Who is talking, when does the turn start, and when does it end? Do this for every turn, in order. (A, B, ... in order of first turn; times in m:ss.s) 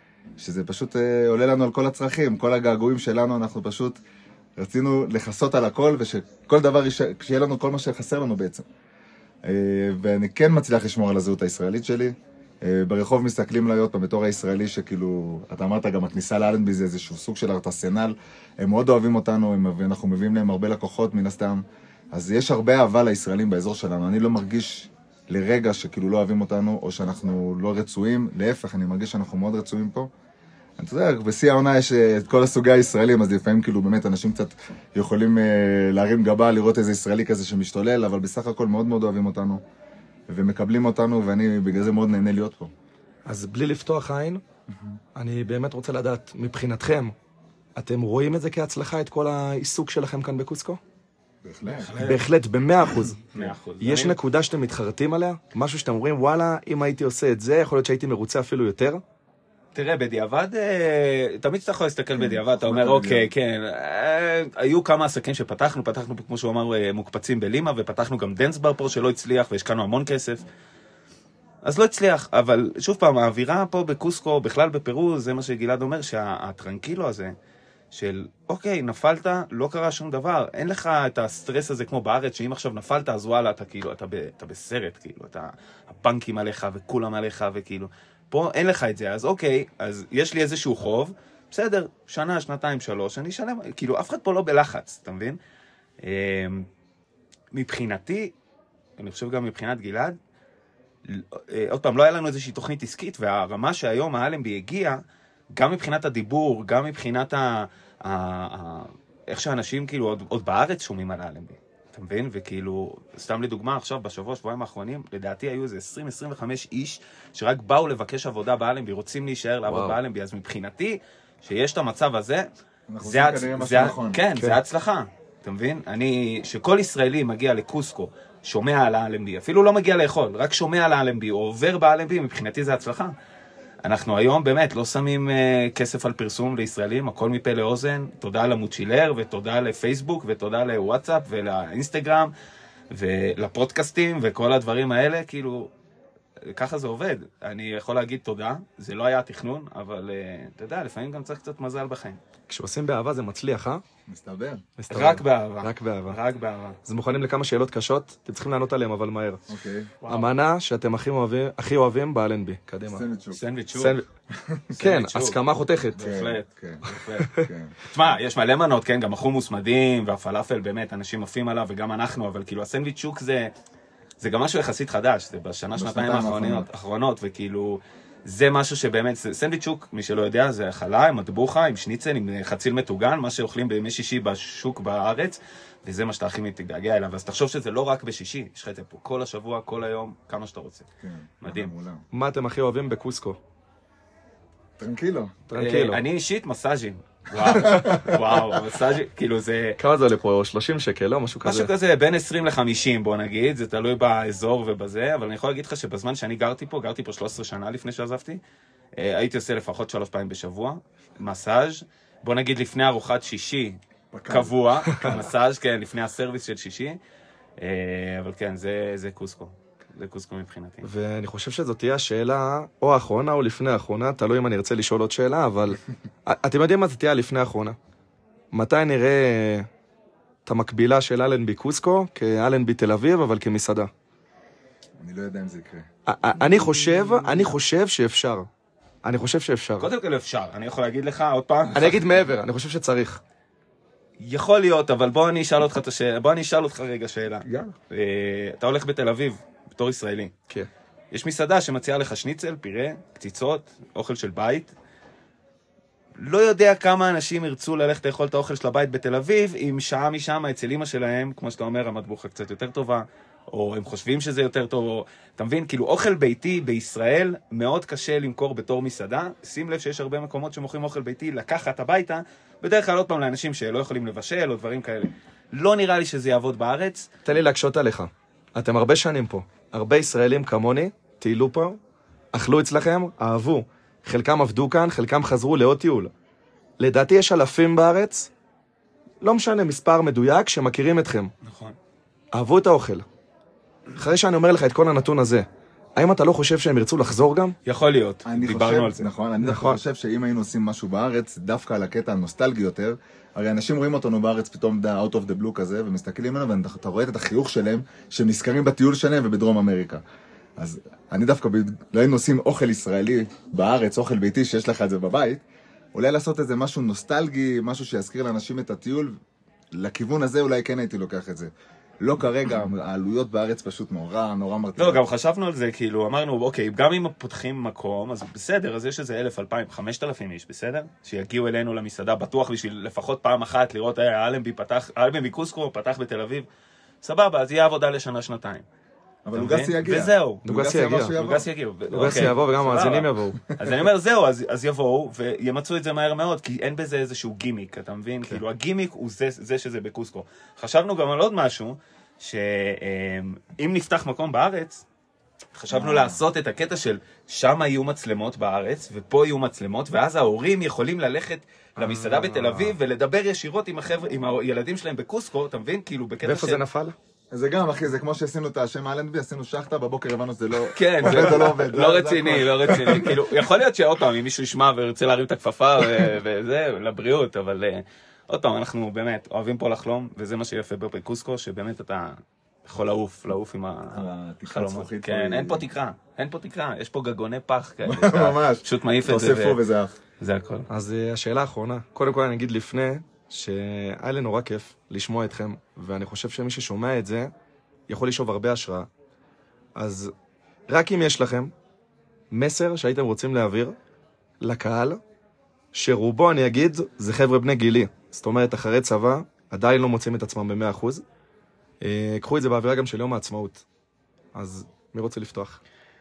0:00.4-0:04.0 A
0:04.6-0:08.6 A
0:09.4-0:30.1 A
0:30.8-0:39.6 A
0:40.3-0:42.7 A
0:43.3-0:44.4 B
0:45.2-0:47.2 B
0:47.8-0:50.8 B
0:51.4-0:52.0 A
0:51.7-0:52.3 C
0:52.0-0:53.2 B
0:53.2-0:54.2 C
0:53.8-0:59.0 B
0:59.8-1:10.4 C
1:02.2-1:03.3 A
1:11.6-1:17.3 C
1:17.9-1:35.4 C
1:36.0-1:36.7 C
1:37.5-1:38.3 C
1:39.0-1:40.2 C
1:41.1-1:45.0 C
1:45.5-2:02.5 C
1:59.7-2:00.0 B
2:02.9-2:04.2 A
2:03.0-2:13.1 C
2:13.8-2:22.3 C
2:22.9-2:25.7 C
2:26.4-2:32.2 C
2:32.5-2:33.8 B
2:34.1-2:34.6 A
2:34.8-2:36.2 B
2:34.9-2:36.8 C
2:36.8-2:39.4 B
2:39.5-2:39.9 A
2:40.0-2:40.3 C
2:40.1-2:43.0 B
2:42.9-2:43.4 A
2:43.3-2:44.0 C
2:43.8-2:44.0 B
2:44.3-2:44.8 A
2:44.7-2:46.0 B
2:44.8-2:45.4 C
2:45.9-2:53.5 C
2:46.0-2:47.8 A
2:47.2-2:47.5 B
2:54.2-3:10.9 C
2:55.8-2:56.7 A
3:11.0-3:12.0 A
3:11.4-3:11.7 C
3:12.1-3:13.4 B
3:14.8-3:15.4 A
3:15.5-3:16.0 B
3:15.6-3:19.8 C
3:17.4-3:18.6 A
3:19.8-3:21.7 B
3:21.4-3:28.4 C
3:29.0-3:37.0 C
3:34.1-3:34.6 A
3:34.9-3:35.2 B
3:37.6-3:40.9 C
3:40.8-3:47.8 B
3:48.5-3:49.7 B
3:50.5-3:53.9 B
3:55.0-3:55.9 A
3:56.1-3:58.5 B
3:56.4-3:57.4 A
3:59.0-3:59.9 B
3:59.8-4:02.1 C
4:01.7-4:03.2 B
4:04.2-4:10.3 C
4:07.5-4:07.7 B
4:11.1-4:14.7 C
4:16.2-4:37.1 C
4:37.2-4:41.8 B
4:42.3-4:46.1 B
4:46.8-4:48.3 B
4:49.2-4:51.3 B
4:51.4-4:51.8 C
4:52.3-4:53.1 B
4:54.0-4:57.6 B
4:57.7-4:59.1 C
4:58.3-5:10.0 A
4:59.4-4:59.8 B
5:10.6-5:15.4 A
5:15.9-5:19.2 A
5:19.7-5:25.0 A
5:24.8-5:36.5 C
5:37.0-5:38.6 C
5:39.2-5:41.5 A
5:39.3-5:40.4 C
5:40.4-5:41.2 B
5:41.2-5:54.8 C
5:41.9-5:43.4 B
5:55.5-6:06.6 C
5:55.7-5:56.2 A
6:01.8-6:02.7 B
6:06.2-6:07.0 B
6:07.3-6:13.4 A
6:10.8-6:29.6 C
6:23.9-6:25.6 A
6:27.8-6:29.9 A
6:30.2-6:30.7 C
6:30.7-6:37.3 B
6:37.9-6:38.9 B
6:39.8-6:40.1 B
6:40.7-6:41.5 B
6:42.3-6:43.8 B
6:44.4-6:45.0 B
6:45.7-6:51.0 B
6:51.8-6:53.6 B
6:54.4-6:55.6 B